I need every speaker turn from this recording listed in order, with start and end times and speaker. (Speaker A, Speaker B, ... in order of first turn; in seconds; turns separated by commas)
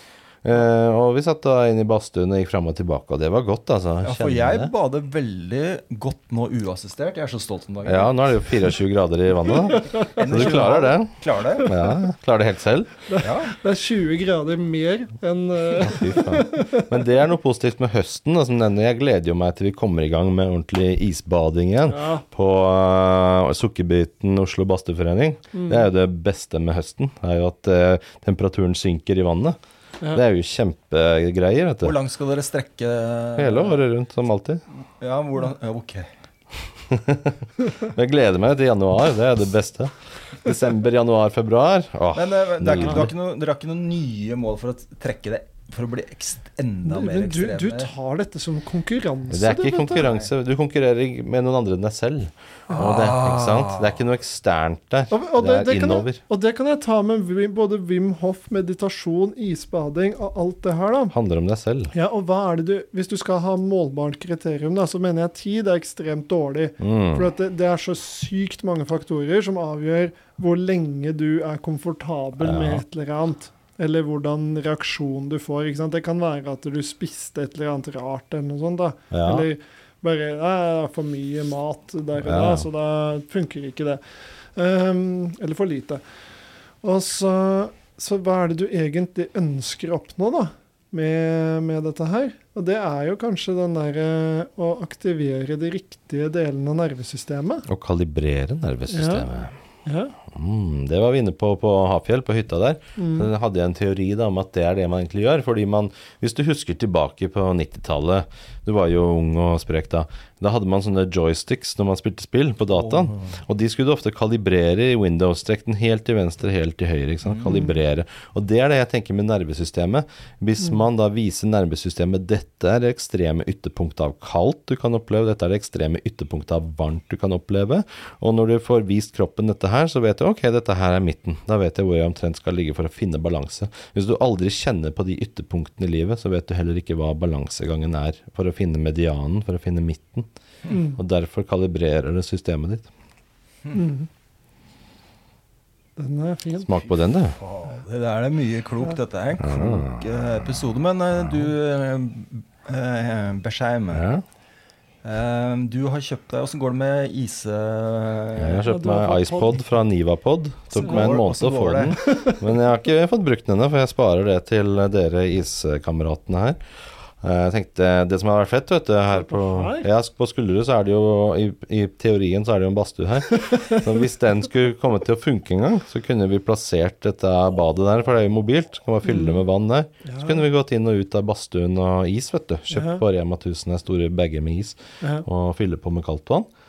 Speaker A: 0.4-4.7, Speaker B: 4.0-8.1, Speaker A: 7.8-13.0, Speaker C: 9.6-10.7, Speaker B: 10.0-11.7, Speaker C: 11.6-11.9, Speaker C: 13.1-17.0, Speaker B: 13.2-13.5, Speaker A: 15.8-29.6, Speaker C: 21.9-22.2, Speaker C: 25.5-25.9, Speaker A: 30.1-32.0, Speaker B: 31.8-33.8, Speaker A: 33.4-34.6, Speaker B: 35.0-36.1, Speaker A: 36.9-43.1, Speaker B: 42.1-47.9, Speaker C: 42.8-43.1, Speaker C: 46.9-50.1, Speaker A: 49.3-56.2, Speaker B: 50.0-50.3, Speaker B: 52.7-54.0, Speaker C: 55.1-61.1, Speaker A: 61.1-61.9, Speaker C: 61.9-84.0, Speaker A: 66.8-67.3, Speaker A: 72.4-72.8, Speaker A: 79.1-79.5, Speaker A: 82.2-82.7, Speaker C: 84.6-86.0, Speaker C: 86.8-97.7, Speaker A: 97.7-99.5, Speaker C: 98.9-99.3, Speaker C: 99.9-100.1, Speaker A: 100.3-140.3, Speaker C: 103.0-103.3, Speaker B: 112.7-113.3, Speaker B: 117.2-117.5, Speaker C: 117.5-117.7, Speaker C: 140.7-141.0, Speaker A: 140.9-142.9, Speaker C: 143.7-144.1, Speaker C: 146.0-146.7, Speaker A: 146.6-147.4, Speaker B: 147.1-154.1, Speaker A: 149.4-150.1, Speaker A: 153.9-154.2, Speaker B: 155.0-158.7, Speaker A: 158.4-166.6, Speaker C: 158.7-159.7, Speaker B: 160.7-162.0, Speaker C: 160.8-161.2, Speaker C: 162.0-162.4, Speaker A: 167.2-186.5, Speaker C: 169.1-169.9, Speaker C: 173.5-173.8, Speaker C: 179.0-179.4, Speaker C: 180.1-180.4, Speaker C: 182.7-183.0